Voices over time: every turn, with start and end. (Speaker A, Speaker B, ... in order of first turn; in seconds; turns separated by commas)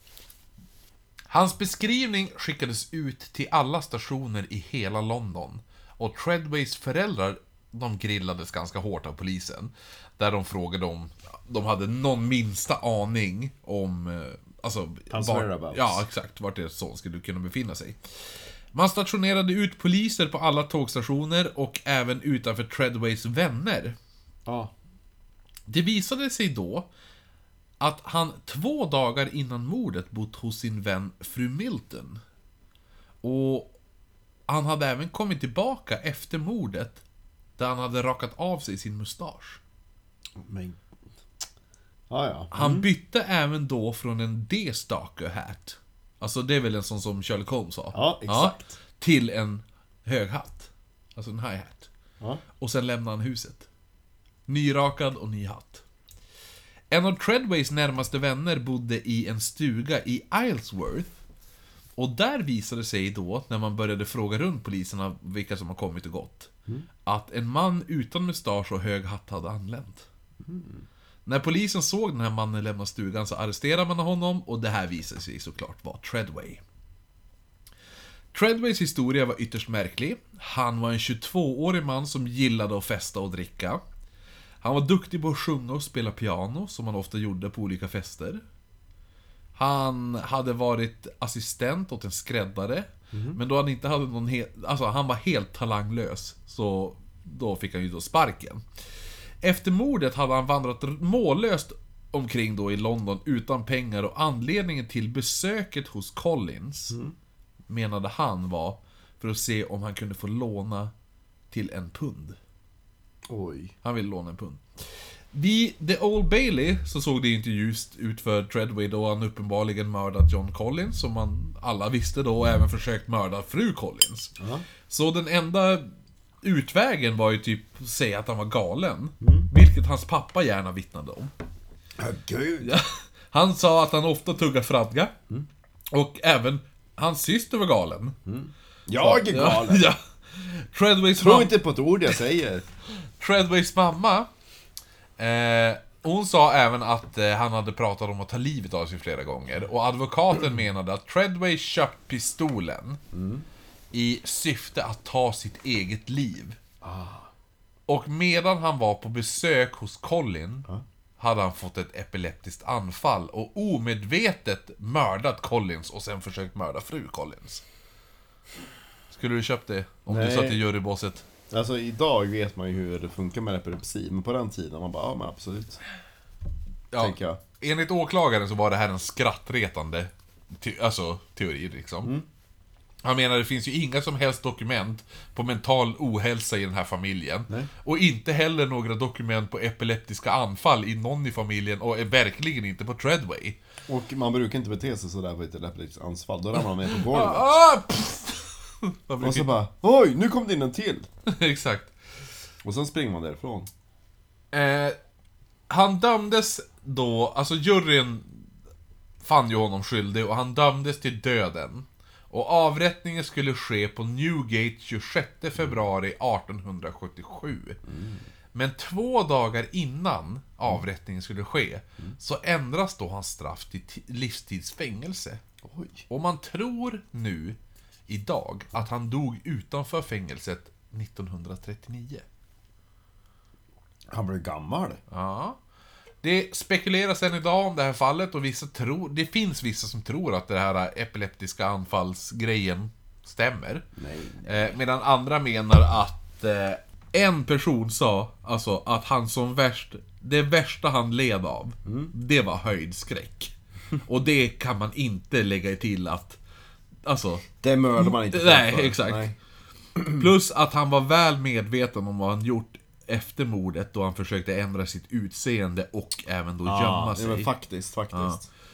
Speaker A: 1.3-18.0, Speaker B: 15.1-16.0, Speaker A: 18.7-24.0, Speaker B: 24.4-24.7, Speaker A: 25.7-26.9, Speaker A: 27.8-32.2, Speaker A: 33.2-33.7, Speaker A: 34.5-37.0, Speaker A: 37.6-39.6, Speaker B: 40.4-40.8, Speaker B: 42.1-42.9, Speaker A: 42.5-51.9, Speaker B: 47.9-48.8, Speaker A: 52.6-53.7, Speaker A: 54.5-55.8, Speaker A: 56.9-61.2, Speaker A: 62.0-66.5, Speaker A: 67.0-70.0, Speaker B: 70.4-70.8, Speaker A: 71.2-76.6, Speaker A: 78.3-83.8, Speaker A: 84.6-88.4, Speaker A: 89.5-98.6, Speaker B: 93.1-93.4, Speaker A: 99.4-107.0, Speaker B: 106.9-107.1, Speaker A: 107.7-110.9, Speaker A: 111.5-112.3, Speaker B: 113.3-113.7, Speaker A: 113.8-114.6, Speaker A: 115.3-124.3, Speaker B: 124.4-124.7, Speaker A: 124.9-125.9, Speaker A: 126.4-131.3, Speaker B: 129.2-129.5, Speaker B: 132.0-132.7, Speaker A: 132.6-135.1, Speaker A: 135.9-138.2, Speaker B: 138.2-139.9, Speaker A: 139.0-141.5, Speaker B: 141.2-142.6, Speaker A: 142.9-144.3, Speaker A: 145.2-153.0, Speaker B: 153.1-153.4, Speaker A: 153.9-156.6, Speaker B: 156.8-157.3, Speaker A: 157.9-160.7, Speaker A: 161.2-167.6, Speaker A: 169.1-171.2, Speaker B: 170.1-170.6, Speaker B: 171.5-175.8, Speaker A: 176.9-182.1, Speaker B: 177.0-177.4, Speaker A: 183.0-193.6, Speaker B: 193.9-197.5, Speaker A: 196.6-199.5, Speaker B: 199.2-201.1, Speaker A: 201.3-201.9, Speaker B: 202.6-203.7, Speaker A: 204.5-205.0, Speaker A: 205.7-208.5, Speaker A: 209.2-217.8, Speaker B: 217.8-218.2, Speaker A: 218.5-225.4, Speaker B: 225.6-226.0, Speaker A: 226.1-227.6, Speaker A: 228.1-232.2, Speaker B: 234.1-235.0, Speaker A: 235.1-235.6, Speaker A: 236.2-243.8, Speaker B: 243.9-244.7, Speaker A: 244.4-256.4, Speaker B: 251.8-252.1, Speaker A: 257.0-259.3, Speaker B: 257.6-259.3, Speaker A: 260.0-267.5, Speaker B: 266.6-268.5, Speaker A: 268.1-268.4